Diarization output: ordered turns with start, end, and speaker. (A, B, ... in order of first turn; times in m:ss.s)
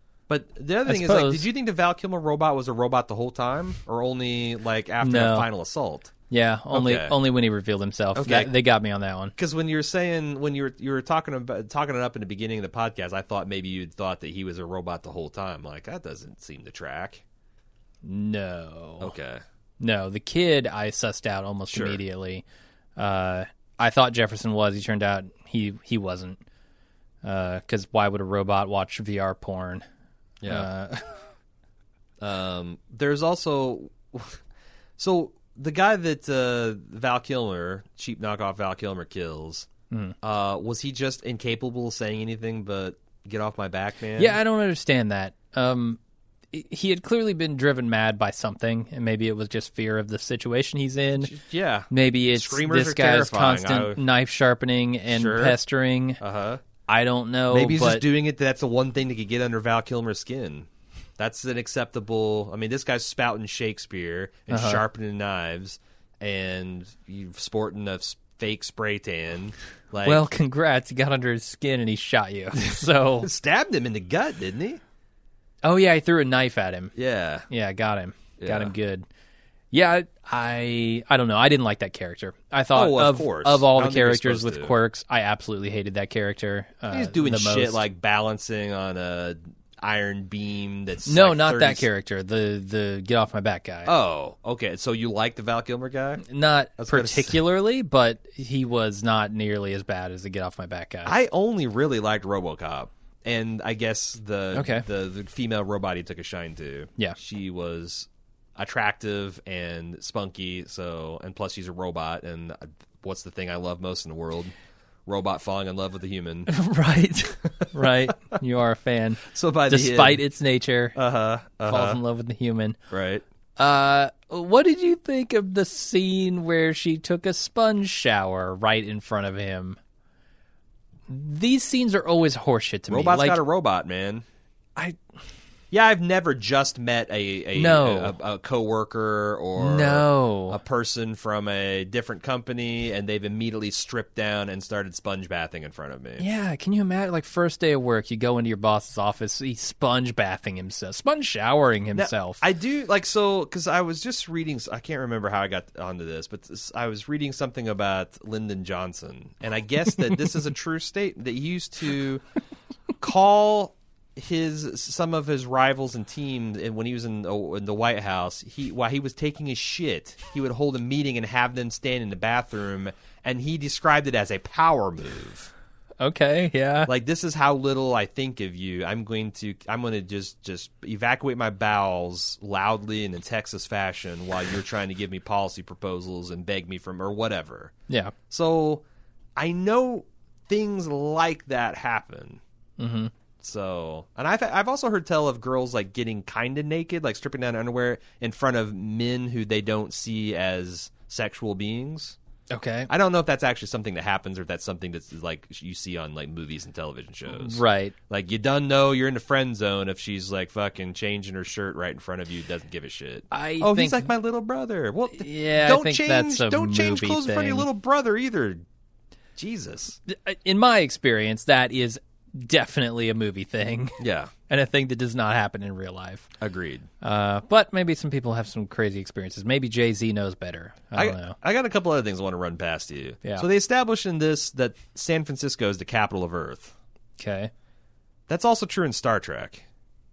0:00.3-0:06.1 A
0:00.8-0:01.5 B
0:05.0-0:05.5 B
0:06.3-0:09.3 B
0:06.7-0:07.2 A
0:08.1-0:08.5 A
0:09.4-0:17.2 A
0:18.0-0:19.1 B
0:19.0-0:19.4 A
0:19.8-0:22.4 B
0:21.7-0:22.0 A
0:23.0-0:26.4 B
0:27.2-0:29.8 B
0:30.4-0:30.7 A
0:30.4-0:31.0 B
0:32.2-0:34.4 A
0:35.0-0:39.7 A
0:40.2-0:44.4 A
0:44.2-0:46.0 B
0:46.5-0:51.3 B
0:51.2-0:54.0 A
0:51.9-0:56.2 B
0:55.1-0:55.6 A
0:56.2-0:56.6 A
0:56.9-0:58.0 B
0:57.5-1:00.7 A
1:01.2-1:10.2 A
1:04.5-1:04.8 B
1:10.0-1:13.3 B
1:12.7-1:14.8 A
1:15.6-1:16.9 B
1:17.0-1:17.4 A
1:17.5-1:19.0 B
1:18.4-1:18.7 A
1:19.7-1:27.8 B
1:22.7-1:24.7 A
1:26.9-1:31.8 A
1:31.1-1:33.9 B
1:33.8-1:36.2 A
1:36.2-1:41.1 B
1:36.8-1:37.4 A
1:41.0-1:54.5 A
1:44.5-1:44.8 B
1:55.1-1:56.5 A
1:56.5-2:01.0 B
1:59.2-2:00.2 A
2:01.0-2:02.0 A
2:01.7-2:02.8 B
2:02.9-2:03.2 A
2:03.6-2:09.8 B
2:11.1-2:13.4 B
2:12.9-2:14.2 A
2:15.7-2:26.2 A
2:17.6-2:18.1 B
2:19.6-2:20.6 B
2:26.2-2:32.4 B
2:31.9-2:42.2 A
2:43.0-2:55.5 A
2:56.0-2:56.9 B
2:56.8-3:07.7 A
3:07.9-3:08.1 B
3:08.3-3:08.8 A
3:09.4-3:12.4 A
3:12.8-3:13.1 B
3:13.4-3:22.2 A
3:22.5-3:22.9 B
3:22.9-3:38.6 A
3:27.3-3:27.9 B
3:33.3-3:34.1 B
3:35.2-3:37.7 B
3:39.4-3:40.0 A
3:40.1-3:46.3 B
3:44.0-3:44.3 A
3:46.4-3:46.9 A
3:47.0-3:51.4 B
3:50.9-3:56.7 A
3:57.2-3:57.5 B
3:58.3-3:59.6 A